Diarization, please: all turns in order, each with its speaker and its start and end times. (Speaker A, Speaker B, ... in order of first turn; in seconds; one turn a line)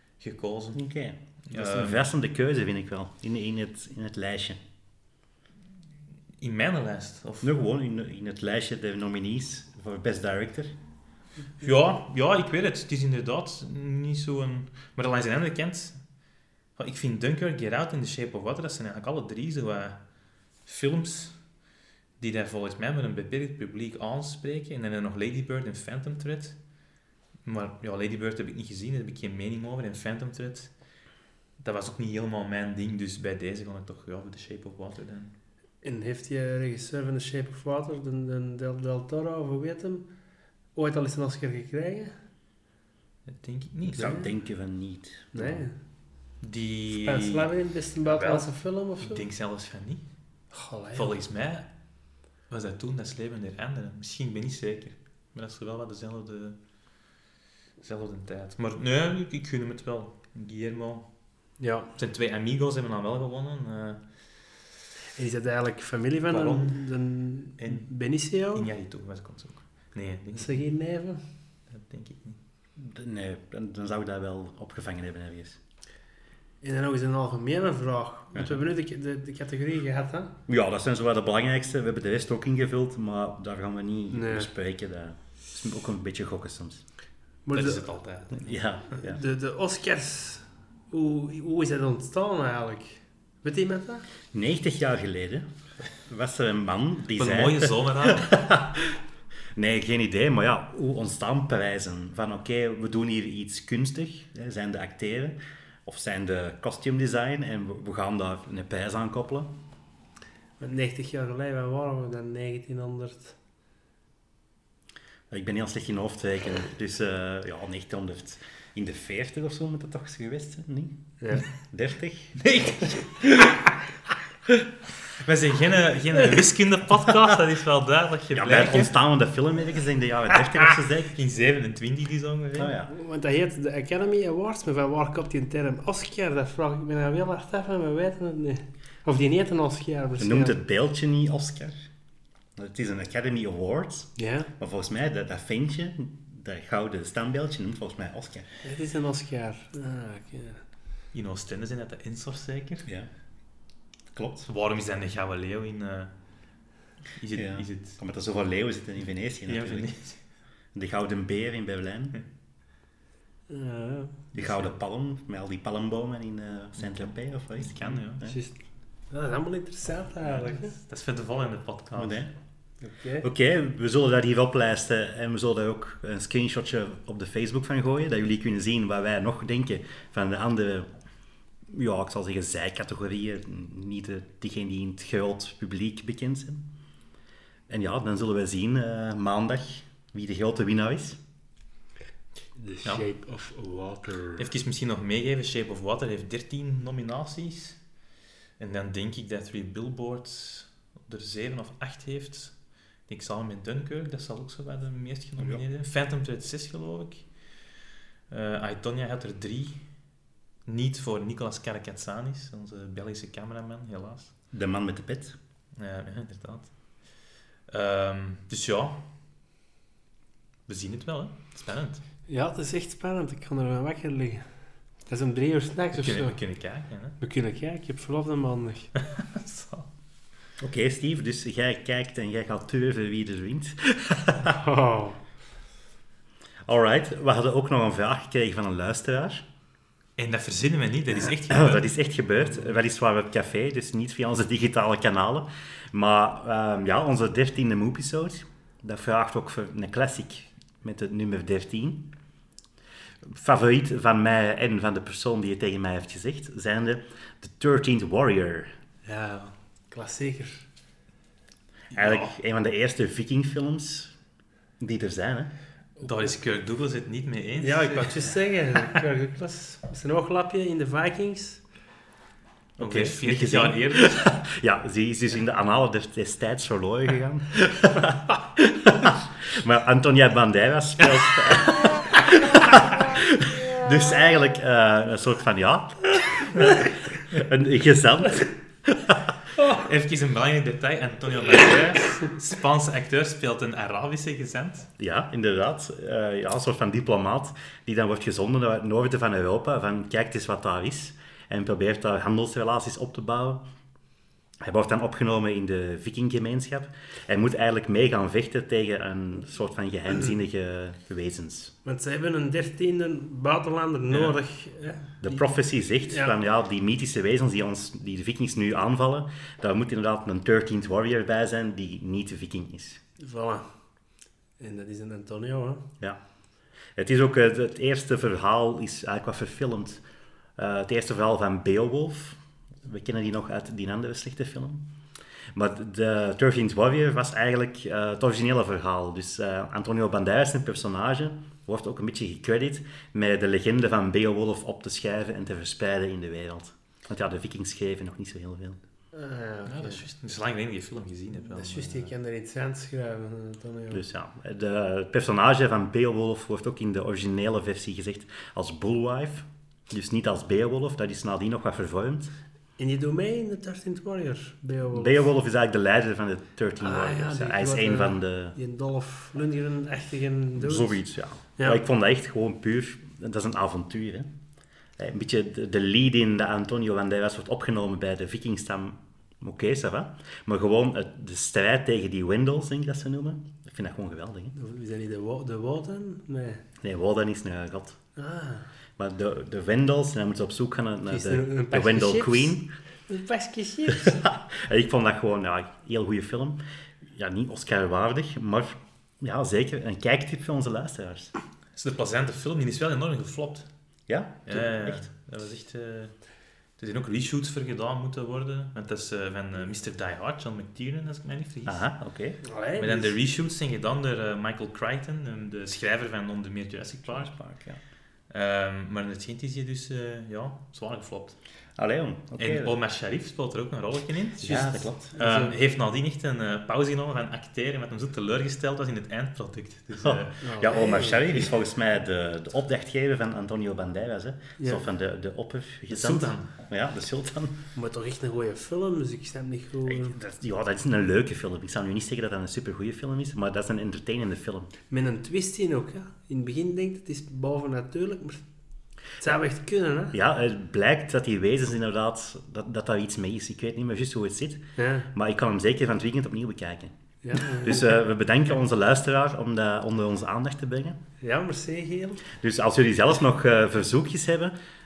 Speaker A: 0.2-0.8
Speaker B: 0.7-4.6
Speaker A: 1.5-2.0
Speaker A: 6.4-7.5
Speaker B: 7.4-10.7
Speaker A: 11.6-16.0
Speaker A: 16.8-20.0
Speaker A: 20.6-21.4
Speaker A: 22.2-26.6
Speaker A: 27.4-30.7
Speaker A: 31.6-35.3
Speaker C: 35.8-40.1
Speaker C: 40.7-42.1
Speaker A: 43.3-44.2
Speaker B: 43.9-45.6
Speaker C: 44.0-44.3
Speaker C: 45.3-45.7
Speaker A: 46.4-47.5
Speaker C: 46.9-49.2
Speaker A: 48.0-50.0
Speaker C: 50.5-51.2
Speaker A: 50.9-51.7
Speaker A: 52.5-56.6
Speaker A: 57.8-61.1
Speaker C: 61.6-61.9
Speaker A: 62.0-64.0
Speaker C: 65.2-68.7
Speaker A: 66.3-66.9
Speaker A: 67.6-70.6
Speaker C: 70.4-71.2
Speaker A: 71.7-72.4
Speaker B: 72.8-75.6
Speaker C: 76.6-80.3
Speaker B: 80.5-86.8
Speaker C: 84.1-84.5
Speaker C: 87.5-87.8
Speaker A: 87.5-88.6
Speaker B: 88.3-89.2
Speaker C: 89.0-94.0
Speaker B: 94.3-99.0
Speaker A: 97.2-98.4
Speaker B: 99.5-109.5
Speaker C: 110.6-113.3
Speaker B: 115.3-122.4
Speaker A: 122.4-123.6
Speaker A: 125.2-128.9
Speaker B: 128.3-131.1
Speaker A: 131.1-132.7
Speaker B: 132.6-132.9
Speaker C: 132.9-140.6
Speaker B: 140.2-141.8
Speaker B: 142.6-148.4
Speaker C: 144.2-144.5
Speaker C: 148.6-150.6
Speaker A: 151.1-152.9
Speaker B: 154.1-154.5
Speaker A: 154.5-156.1
Speaker A: 157.2-158.0
Speaker B: 157.3-159.9
Speaker A: 159.4-160.2
Speaker B: 160.7-162.2
Speaker C: 163.5-164.2
Speaker A: 164.3-164.7
Speaker B: 164.3-168.3
Speaker A: 167.6-168.3
Speaker C: 168.2-168.6
Speaker C: 169.1-170.7
Speaker A: 170.3-172.2
Speaker B: 171.9-172.3
Speaker C: 172.8-173.2
Speaker B: 173.2-180.9
Speaker B: 181.7-186.7
Speaker B: 187.7-191.2
Speaker C: 192.6-194.5
Speaker A: 194.4-197.8
Speaker A: 198.6-202.5
Speaker A: 203.1-207.2
Speaker A: 208.3-209.8
Speaker A: 210.7-214.3
Speaker B: 214.5-215.3
Speaker A: 215.8-216.7
Speaker A: 217.7-219.0
Speaker A: 220.7-222.0
Speaker C: 222.3-224.4
Speaker C: 225.1-226.4
Speaker A: 225.9-227.2
Speaker C: 227.2-228.9
Speaker A: 229.0-229.9
Speaker B: 230.6-234.6
Speaker C: 234.5-235.2
Speaker B: 236.7-239.4
Speaker A: 240.2-241.9
Speaker B: 241.5-252.1
Speaker B: 253.2-258.7
Speaker C: 259.1-260.6
Speaker B: 261.9-264.1
Speaker A: 262.0-262.2
Speaker B: 264.8-265.5
Speaker A: 266.0-268.3
Speaker C: 267.6-271.6
Speaker A: 272.8-274.3
Speaker B: 272.8-289.3
Speaker A: 289.7-294.9
Speaker B: 295.0-303.6
Speaker B: 304.6-311.7
Speaker C: 311.8-315.4
Speaker A: 314.1-314.4
Speaker B: 315.2-323.0
Speaker C: 316.1-316.3
Speaker C: 323.2-323.6
Speaker C: 324.6-325.9
Speaker B: 326.9-330.0
Speaker B: 330.6-334.9
Speaker B: 335.5-348.8
Speaker C: 349.1-350.0
Speaker A: 349.7-352.1
Speaker C: 351.4-354.0
Speaker B: 353.9-362.3
Speaker C: 362.8-365.3
Speaker B: 364.9-368.6
Speaker C: 366.8-371.0
Speaker B: 370.6-374.3
Speaker B: 375.0-384.5
Speaker C: 384.5-386.6
Speaker B: 386.8-388.0
Speaker C: 388.1-388.6
Speaker B: 389.0-392.7
Speaker C: 391.1-394.2
Speaker B: 393.9-401.3
Speaker A: 401.8-403.7
Speaker B: 404.1-405.1
Speaker A: 404.5-406.2
Speaker A: 406.8-411.9
Speaker B: 411.6-412.4
Speaker C: 412.4-413.1
Speaker A: 412.8-417.3
Speaker B: 417.1-417.8
Speaker A: 418.3-421.4
Speaker B: 421.8-422.7
Speaker A: 422.4-430.4
Speaker B: 424.4-425.1
Speaker C: 425.1-425.5
Speaker B: 430.0-437.6
Speaker C: 430.4-431.4
Speaker A: 435.9-436.5
Speaker C: 437.7-440.1
Speaker B: 439.8-444.7
Speaker C: 444.9-448.4
Speaker C: 449.2-450.1
Speaker B: 450.1-461.0
Speaker C: 454.8-455.1
Speaker C: 457.2-457.8
Speaker C: 461.2-462.2
Speaker B: 462.4-464.5